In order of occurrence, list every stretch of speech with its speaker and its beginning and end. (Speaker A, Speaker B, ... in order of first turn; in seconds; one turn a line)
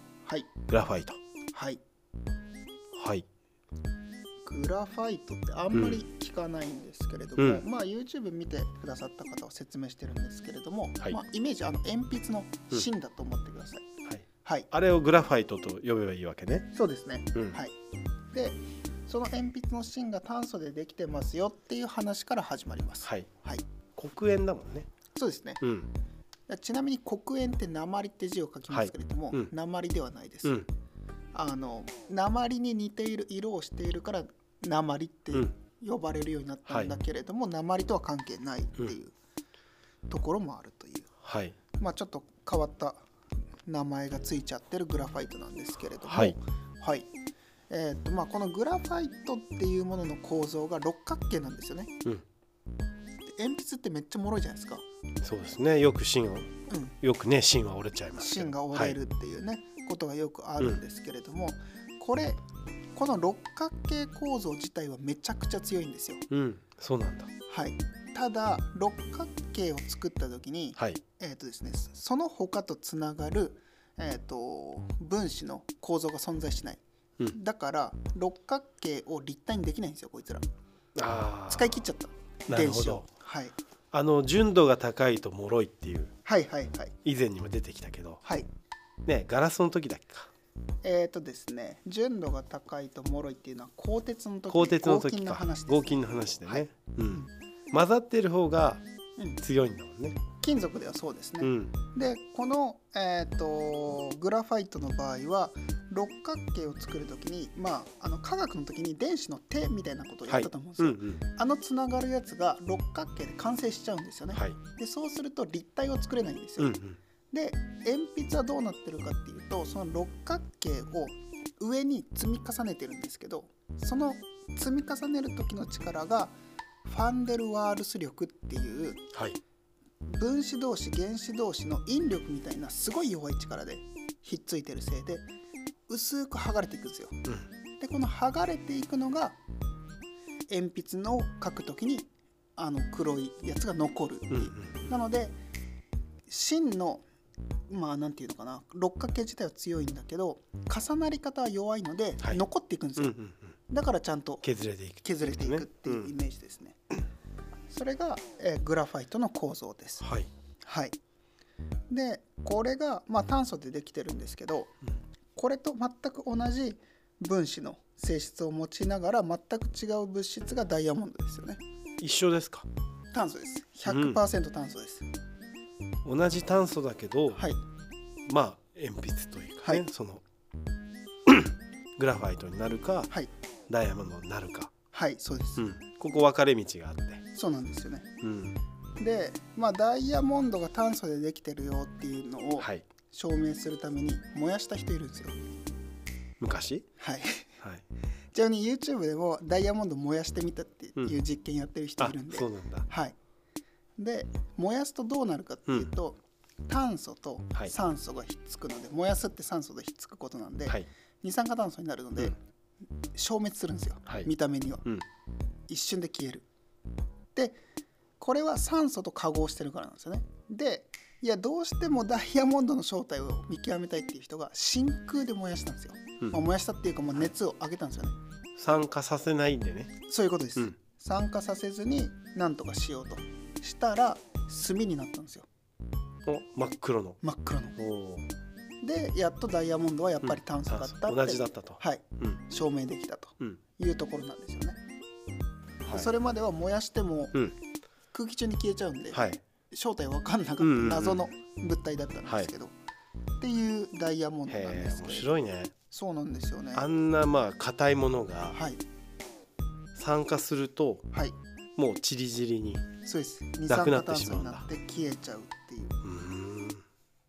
Speaker A: 0.2-0.5
Speaker B: 0.7-1.2
Speaker A: 1.5-1.8
Speaker B: 2.9-3.3
Speaker A: 4.4-13.8
Speaker B: 5.7-6.0
Speaker B: 7.4-7.7
Speaker B: 14.1-16.7
Speaker A: 14.4-14.7
Speaker A: 16.8-17.8
Speaker A: 18.3-23.6
Speaker B: 24.0-24.9
Speaker A: 25.1-25.6
Speaker B: 25.6-25.9
Speaker A: 26.5-30.7
Speaker B: 28.7-29.5
Speaker A: 31.3-39.1
Speaker B: 36.7-36.9
Speaker A: 40.1-41.1
Speaker B: 41.2-41.6
Speaker A: 41.8-43.1
Speaker A: 43.6-47.1
Speaker B: 46.1-46.4
Speaker A: 47.7-52.0
Speaker A: 53.3-54.8
Speaker B: 55.2-56.5
Speaker A: 56.7-57.0
Speaker B: 57.0-59.0
Speaker A: 58.1-62.4
Speaker A: 62.9-66.2
Speaker B: 66.3-67.3
Speaker A: 67.5-80.5
Speaker B: 81.0-81.8
Speaker A: 81.5-83.6
Speaker B: 82.5-83.1
Speaker B: 83.9-86.1
Speaker A: 86.2-87.0
Speaker B: 87.0-88.2
Speaker B: 89.0-90.3
Speaker A: 90.8-97.3
Speaker B: 94.5-98.8
Speaker B: 99.4-100.2
Speaker A: 100.4-116.8
Speaker B: 101.4-101.8
Speaker B: 110.3-111.2
Speaker B: 116.6-117.0
Speaker A: 117.3-129.1
Speaker B: 129.1-129.4
Speaker A: 130.1-135.3
Speaker A: 135.9-137.2
Speaker A: 137.8-139.4
Speaker A: 140.5-145.4
Speaker B: 144.3-144.9
Speaker A: 146.3-147.1
Speaker A: 147.7-153.2
Speaker B: 153.0-153.5
Speaker A: 153.7-154.5
Speaker B: 154.4-156.1
Speaker A: 155.0-156.8
Speaker A: 157.7-160.1
Speaker B: 160.0-160.3
Speaker A: 160.7-161.0
Speaker A: 161.9-164.8
Speaker A: 165.3-171.6
Speaker B: 172.0-172.7
Speaker A: 173.1-175.1
Speaker B: 173.8-174.2
Speaker B: 176.0-177.4
Speaker A: 177.3-177.6
Speaker B: 178.3-180.2
Speaker B: 181.3-183.1
Speaker B: 183.7-184.7
Speaker A: 184.9-185.7
Speaker B: 185.6-187.2
Speaker A: 187.3-188.1
Speaker B: 188.2-188.6
Speaker A: 189.0-195.5
Speaker B: 192.6-192.8
Speaker B: 196.4-196.9
Speaker A: 197.0-197.6
Speaker A: 198.3-203.2
Speaker B: 202.0-202.9
Speaker A: 204.0-212.4
Speaker A: 213.1-214.9
Speaker B: 214.1-214.3
Speaker A: 215.7-216.5
Speaker A: 218.2-228.2
Speaker B: 228.6-229.9
Speaker A: 230.1-235.5
Speaker B: 236.2-237.2
Speaker A: 237.2-237.8
Speaker B: 237.8-238.3
Speaker A: 238.8-244.8
Speaker B: 240.2-242.4
Speaker B: 245.8-246.1
Speaker A: 245.9-247.4
Speaker A: 248.1-252.7
Speaker B: 249.1-249.4
Speaker B: 250.6-251.3
Speaker B: 252.2-252.5
Speaker A: 253.4-255.3
Speaker B: 254.5-255.7
Speaker A: 255.9-256.9
Speaker B: 256.7-258.6
Speaker A: 258.5-258.8
Speaker B: 259.9-261.1
Speaker B: 261.8-262.8
Speaker A: 263.0-266.0
Speaker B: 263.7-264.7
Speaker B: 266.0-266.9